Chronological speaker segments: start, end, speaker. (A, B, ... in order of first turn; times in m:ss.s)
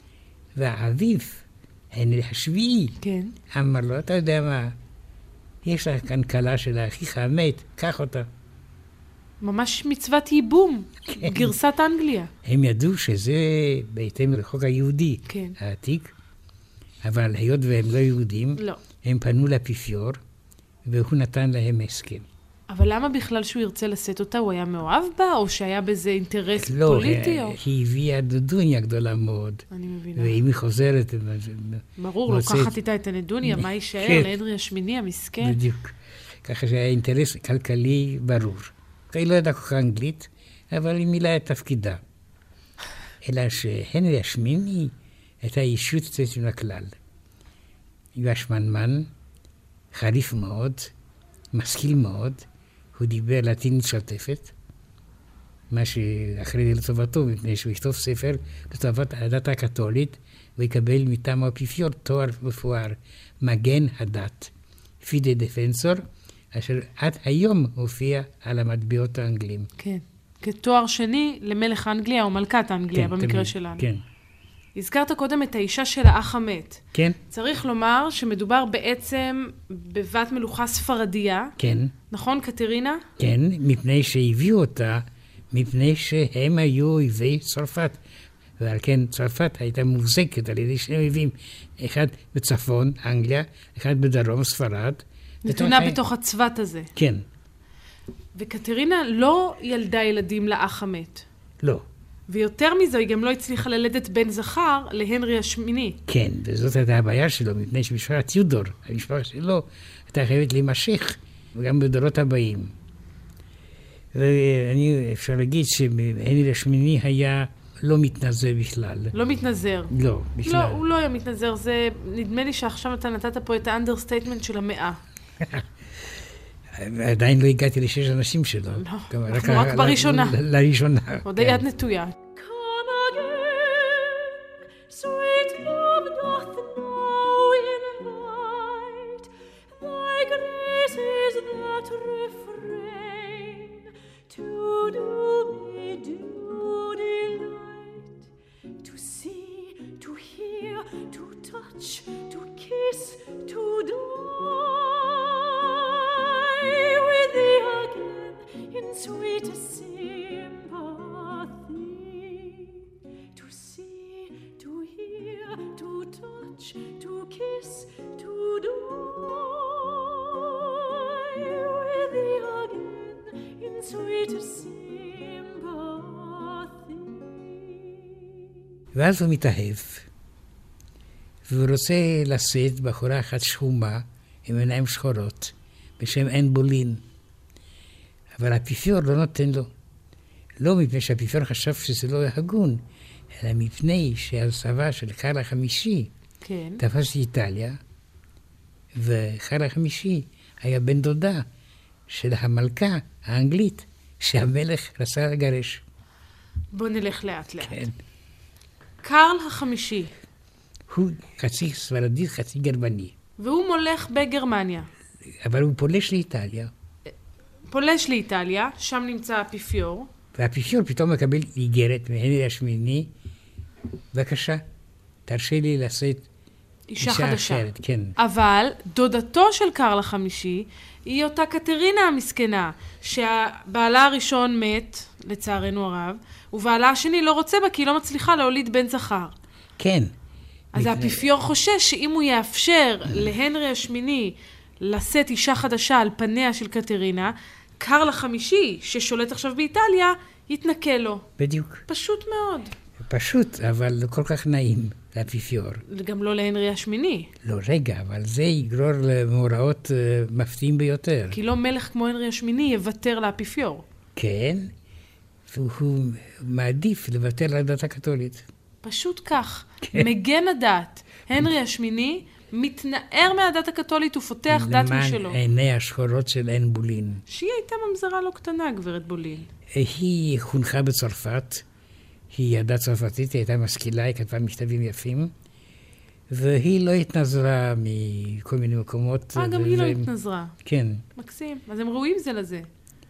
0:00.6-0:03.0 A
0:03.0-0:03.4 B
0:03.5-0:04.8 A
0:05.6-0:08.3 A
0:09.4-0:12.3 B
0:11.1-0:11.6 A
0:12.4-0:16.1 A
0:15.3-0:15.6 B
0:17.0-0:20.2 A
0:20.8-0:22.3 A
0:22.7-0:27.6 B
0:26.6-0:32.8 A
0:29.7-0:30.4 B
0:32.0-0:35.6 B
0:33.4-0:34.3 A
0:35.4-0:42.0 A
0:43.2-0:47.0 A
0:48.2-0:49.1 A
0:49.9-0:50.9 A
0:51.5-0:54.5 A
0:55.7-1:09.7 A
1:09.8-1:13.8 B
1:12.9-1:14.0 A
1:14.8-1:21.6 B
1:21.6-1:22.0 A
1:22.1-1:23.0 B
1:23.2-1:28.0 A
1:28.6-1:36.0 A
1:35.4-1:36.9 B
1:37.0-1:37.2 A
1:38.4-1:41.2 B
1:42.3-1:46.0 B
1:46.1-1:52.7 A
1:54.1-1:59.1 A
1:59.1-1:59.9 B
1:59.9-2:00.8 A
2:00.4-2:05.0 B
2:05.4-2:06.2 A
2:06.7-2:11.6 A
2:08.7-2:10.4 B
2:11.2-2:12.2 B
2:12.3-2:28.3 C
2:28.8-2:58.4 C
2:58.9-3:00.1 A
3:01.5-3:07.0 A
3:08.4-3:09.7 A
3:10.6-3:16.1 A
3:16.4-3:16.8 B
3:16.8-3:17.8 A
3:18.9-3:21.5 A
3:22.1-3:25.8 A
3:26.7-3:27.9 B
3:27.6-3:28.0 A
3:29.0-3:30.1 B
3:30.9-3:33.1 A
3:33.4-3:34.9 B
3:35.4-3:36.7 A
3:37.7-3:40.1 B
3:40.4-3:43.1 A
3:44.1-3:44.6 A
3:45.3-3:46.3 A
3:46.9-3:59.4 B
3:47.0-3:48.2 A
3:59.8-4:00.1 A
4:00.8-4:01.2 A
4:00.8-4:11.2 B
4:11.4-4:11.8 A
4:11.9-4:12.7 B
4:13.0-4:15.8 A
4:15.9-4:17.3 B
4:17.4-4:21.4 A
4:21.3-4:23.8 B
4:24.2-4:24.7 A
4:25.5-4:28.4 A
4:28.8-4:35.4 B
4:29.8-4:30.1 A
4:34.5-4:37.2 A
4:37.3-4:39.5 B
4:39.7-4:41.6 A
4:42.3-4:45.3 A
4:46.3-4:50.1 A
4:49.4-4:50.6 B
4:50.6-4:51.0 A
4:51.2-4:52.7 B